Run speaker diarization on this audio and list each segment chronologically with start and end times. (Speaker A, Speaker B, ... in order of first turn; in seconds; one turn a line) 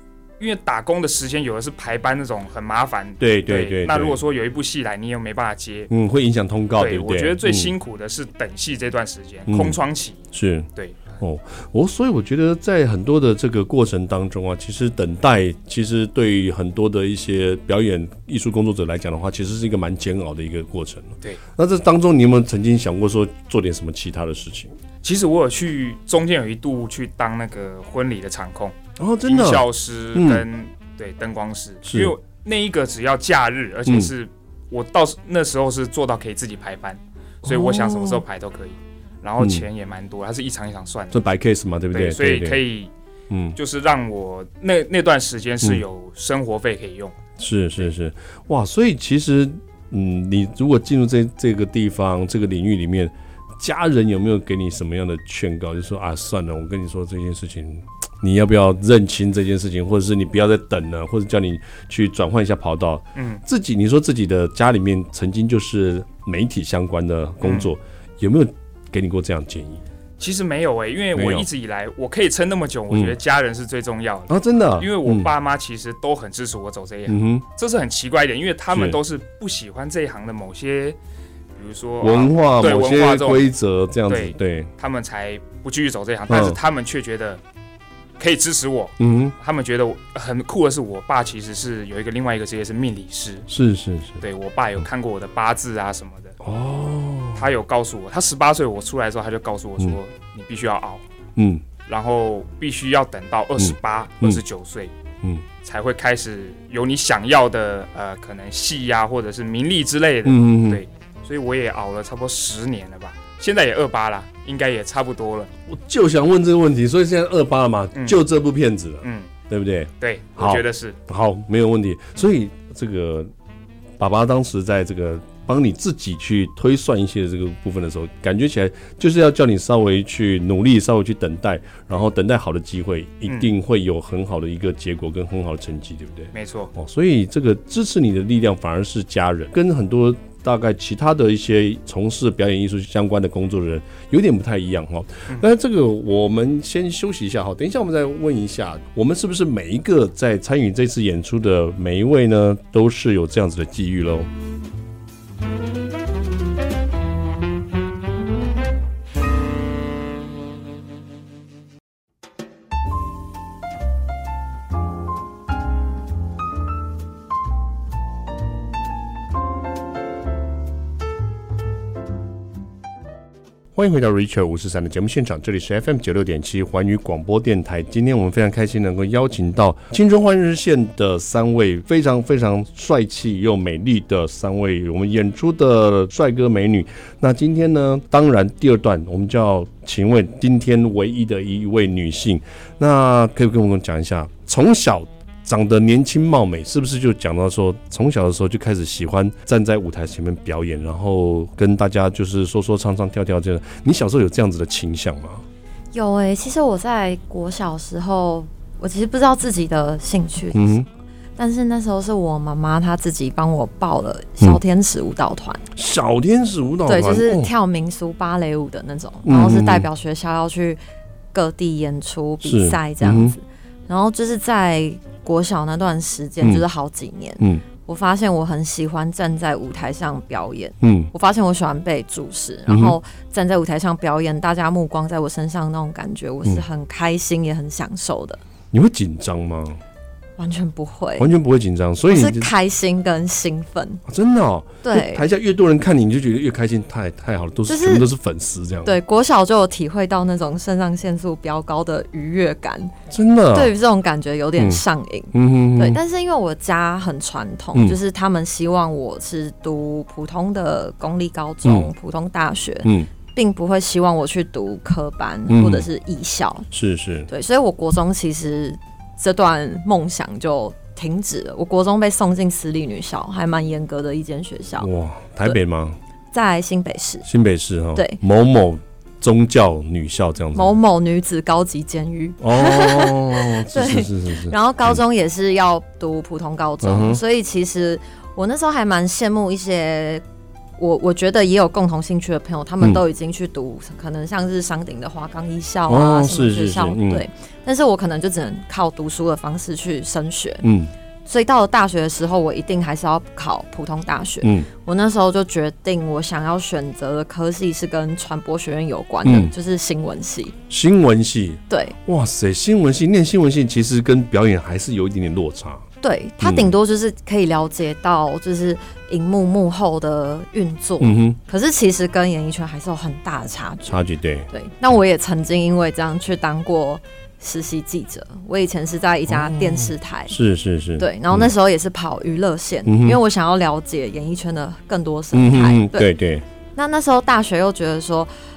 Speaker A: 0.4-5.9
Speaker B: 3.2-4.2
Speaker B: 5.9-7.7
Speaker A: 6.8-10.2
Speaker B: 9.5-9.8
Speaker B: 10.3-10.7
Speaker A: 10.8-11.2
Speaker B: 11.2-24.7
Speaker A: 25.0-41.2
Speaker B: 29.0-30.4
Speaker B: 31.8-32.1
Speaker B: 33.9-34.1
Speaker B: 37.4-38.2
Speaker B: 39.4-39.6
Speaker B: 41.1-42.6
Speaker A: 41.9-42.9
Speaker B: 43.3-43.6
Speaker A: 43.6-47.2
Speaker B: 47.4-69.8
Speaker A: 63.1-63.4
Speaker A: 67.4-67.7
Speaker A: 70.2-81.0
Speaker B: 71.1-71.5
Speaker B: 72.9-73.2
Speaker B: 74.3-75.3
Speaker B: 77.1-77.4
Speaker B: 78.7-79.0
Speaker A: 81.6-83.5
Speaker B: 82.0-84.7
Speaker A: 84.1-87.4
Speaker B: 86.3-86.6
Speaker A: 88.2-93.5
Speaker B: 89.0-89.3
Speaker B: 93.5-94.2
Speaker A: 94.2-96.3
Speaker B: 96.4-97.5
Speaker A: 97.3-101.0
Speaker B: 101.3-101.6
Speaker A: 101.9-104.9
Speaker B: 103.6-104.4
Speaker A: 105.6-115.5
Speaker B: 110.2-110.8
Speaker B: 115.7-123.3
Speaker A: 119.0-119.3
Speaker A: 120.0-121.0
Speaker B: 124.0-154.3
Speaker A: 136.3-136.7
Speaker B: 173.8-205.4
Speaker C: 205.9-210.8
Speaker B: 210.5-210.8
Speaker C: 211.4-215.6
Speaker B: 215.8-217.5
Speaker C: 216.9-220.8
Speaker B: 219.2-219.9
Speaker C: 221.3-238.4
Speaker B: 222.4-223.3
Speaker B: 230.8-231.1
Speaker B: 232.7-232.9
Speaker B: 238.7-239.8
Speaker C: 240.4-241.3
Speaker B: 241.2-242.5
Speaker C: 242.1-244.0
Speaker B: 244.1-248.9
Speaker C: 244.8-245.2
Speaker C: 247.7-248.1
Speaker C: 248.8-252.9
Speaker B: 253.1-253.7
Speaker C: 253.5-266.7
Speaker B: 254.6-256.0
Speaker B: 261.6-261.9
Speaker B: 262.8-263.1
Speaker B: 265.5-265.9
Speaker B: 266.7-267.3
Speaker C: 267.3-274.9
Speaker B: 274.8-276.0
Speaker C: 276.3-277.2
Speaker B: 277.2-280.8
Speaker C: 277.9-278.2
Speaker C: 280.5-290.2
Speaker B: 282.4-285.0
Speaker B: 286.8-287.2
Speaker C: 290.8-300.6
Speaker B: 295.9-297.2
Speaker B: 300.6-300.9
Speaker C: 301.2-310.6
Speaker B: 304.4-304.7
Speaker B: 309.2-309.5
Speaker B: 310.7-315.9
Speaker C: 311.7-312.0
Speaker C: 316.0-324.0
Speaker B: 316.4-316.7
Speaker B: 321.0-321.4
Speaker B: 323.9-324.5
Speaker C: 324.5-330.4
Speaker B: 329.3-331.5
Speaker C: 331.0-336.1
Speaker B: 332.9-333.2
Speaker B: 335.3-336.4
Speaker C: 336.8-338.3